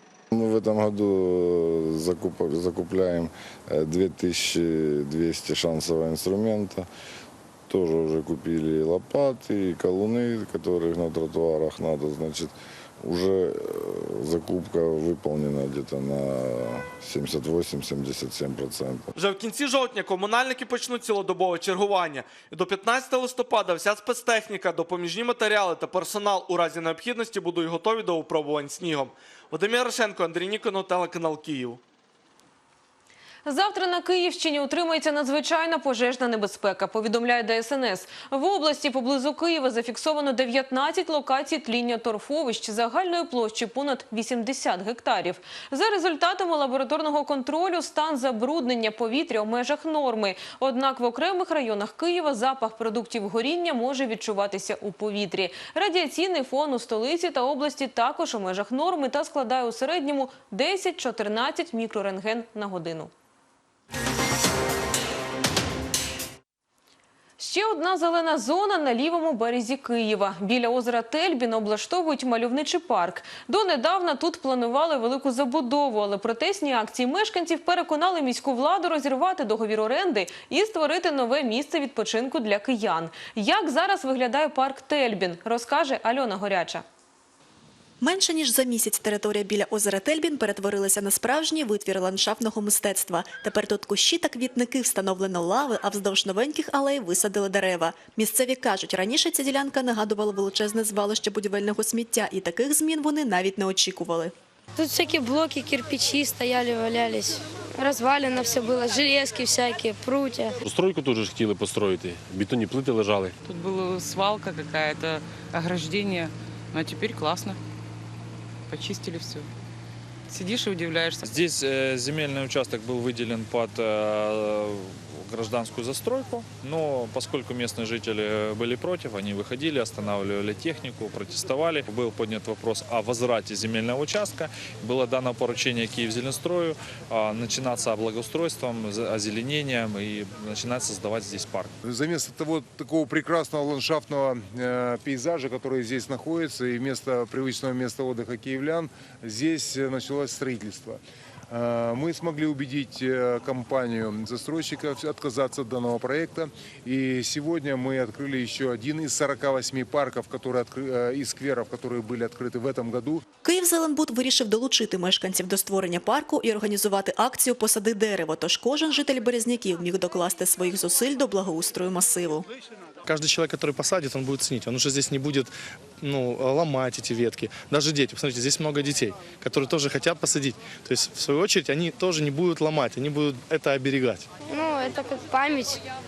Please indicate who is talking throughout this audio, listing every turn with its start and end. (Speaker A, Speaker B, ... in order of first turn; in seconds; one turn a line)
Speaker A: 0.3-6.9
Speaker A: 7.7-19.1
Speaker B: 19.2-31.8
Speaker C: 33.4-63.1
Speaker C: 67.4-86.8
Speaker D: 88.0-104.3
Speaker E: 104.8-110.5
Speaker F: 110.7-113.3
Speaker G: 113.4-117.6
Speaker G: 118.7-119.5
Speaker G: 120.3-121.3
Speaker H: 121.2-141.7
Speaker I: 141.8-151.0
Speaker I: 151.5-163.2
Speaker D: 163.4-172.4
Speaker J: 173.1-175.5
Speaker J: 176.0-184.2
Speaker E: 184.5-185.8